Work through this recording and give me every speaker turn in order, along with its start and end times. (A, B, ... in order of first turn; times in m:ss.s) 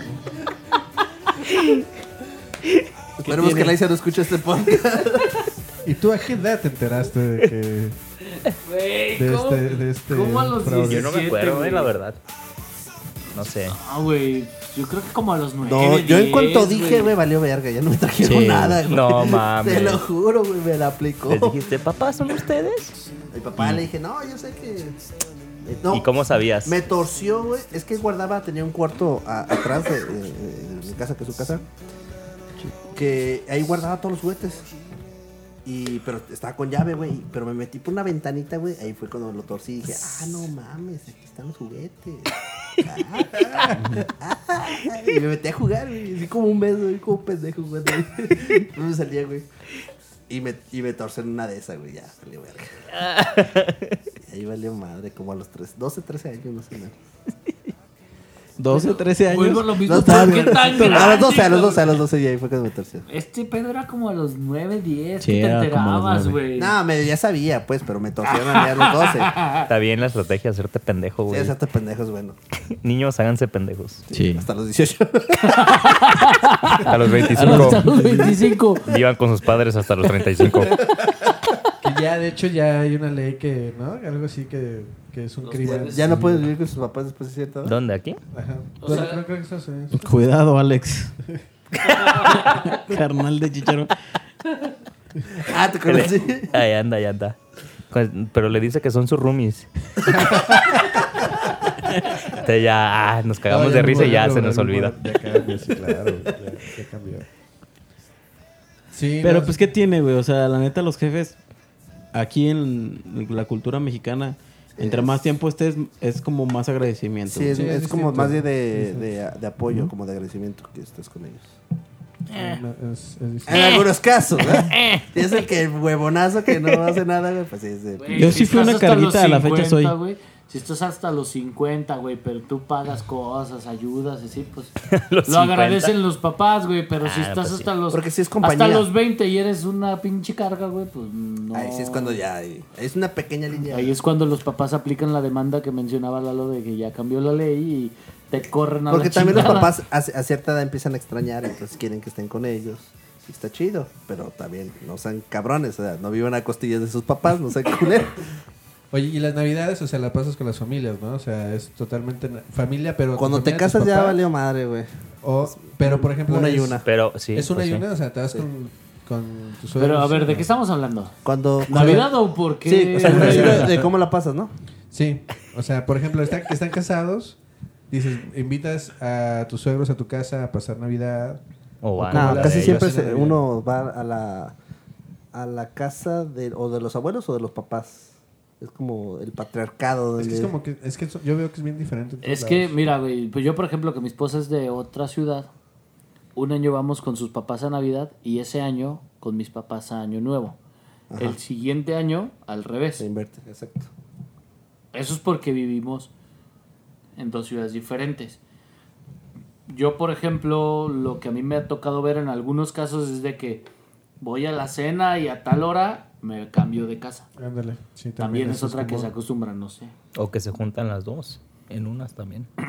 0:01.5-0:01.8 A
0:03.2-0:05.4 B
0:03.3-0:03.7 C
0:05.8-0:08.0 D
0:08.4-0:11.9 E
0:09.2-0:11.1 D
0:10.8-0:12.2 A
0:13.3-0:13.8 A
0:13.7-0:17.2 E
0:15.6-0:21.6 B
0:18.2-0:18.8 C
0:18.9-0:20.0 A
0:21.3-0:23.0 A
0:23.3-0:25.0 B
0:23.6-0:23.8 C
0:25.6-0:26.1 B
0:25.9-0:26.8 A
0:26.7-0:31.7 B
0:32.9-0:34.7 B
0:35.6-0:49.5 B
0:43.8-0:44.1 C
0:50.3-0:52.8 B
0:53.0-0:53.9 A
0:54.2-0:57.0 B
0:58.6-1:01.2 C
0:58.7-1:02.0 E
0:59.9-1:03.1 B
1:03.1-1:06.8 E
1:05.2-1:06.4 C
1:06.6-1:09.4 B
1:08.3-1:09.7 E
1:09.7-1:11.6 A
1:11.3-1:12.4 B
1:12.8-1:14.1 A
1:14.1-1:14.5 C
1:14.1-1:16.0 B
1:15.4-1:18.9 E
1:16.8-1:17.8 A
1:17.3-1:18.4 C
1:18.8-1:20.8 A
1:21.8-1:26.5 D
1:25.4-1:26.1 E
1:25.6-1:27.8 B
1:27.6-1:28.2 A
1:28.3-1:30.1 D
1:28.8-1:29.2 E
1:29.9-1:31.1 C
1:31.9-1:32.8 E
1:32.3-1:33.9 C
1:35.4-1:36.5 B
1:35.9-1:37.4 A
1:37.9-1:39.7 A
1:40.1-1:40.8 D
1:42.3-1:44.9 A
1:43.5-1:47.3 D
1:48.9-1:49.6 D
1:49.2-1:51.4 C
1:52.1-1:57.6 C
1:54.8-1:55.2 B
1:57.3-2:01.5 B
1:57.5-1:59.1 D
2:02.3-2:03.7 D
2:03.5-2:08.4 B
2:03.5-2:03.8 A
2:04.7-2:05.0 A
2:08.0-2:14.8 E
2:08.1-2:10.0 C
2:14.8-2:15.9 A
2:15.3-2:22.2 E
2:17.0-2:17.7 A
2:17.9-2:18.9 B
2:21.5-2:24.0 B
2:23.7-2:29.8 E
2:28.9-2:38.3 B
2:38.9-2:44.2 D
2:43.2-2:44.9 B
2:45.2-2:46.8 D
2:45.5-2:46.9 B
2:46.8-2:47.8 A
2:47.3-2:50.5 D
2:49.8-2:53.7 E
2:51.2-2:52.1 B
2:51.7-2:52.0 D
2:52.6-2:54.5 B
2:53.0-2:53.9 D
2:54.9-2:57.4 D
2:57.9-3:01.4 D
3:01.8-3:02.8 A
3:02.0-3:03.4 D
3:02.1-3:04.6 B
3:05.3-3:10.5 B
3:10.2-3:12.8 D
3:12.2-3:15.5 E
3:16.4-3:20.6 E
3:21.1-3:21.4 B
3:21.2-3:23.0 E
3:23.0-3:23.9 B
3:24.9-3:26.1 E
3:27.2-3:28.4 E
3:29.7-3:33.7 E
3:34.2-3:37.3 E
3:37.4-3:39.1 D
3:38.2-3:39.9 E
3:40.2-3:42.5 A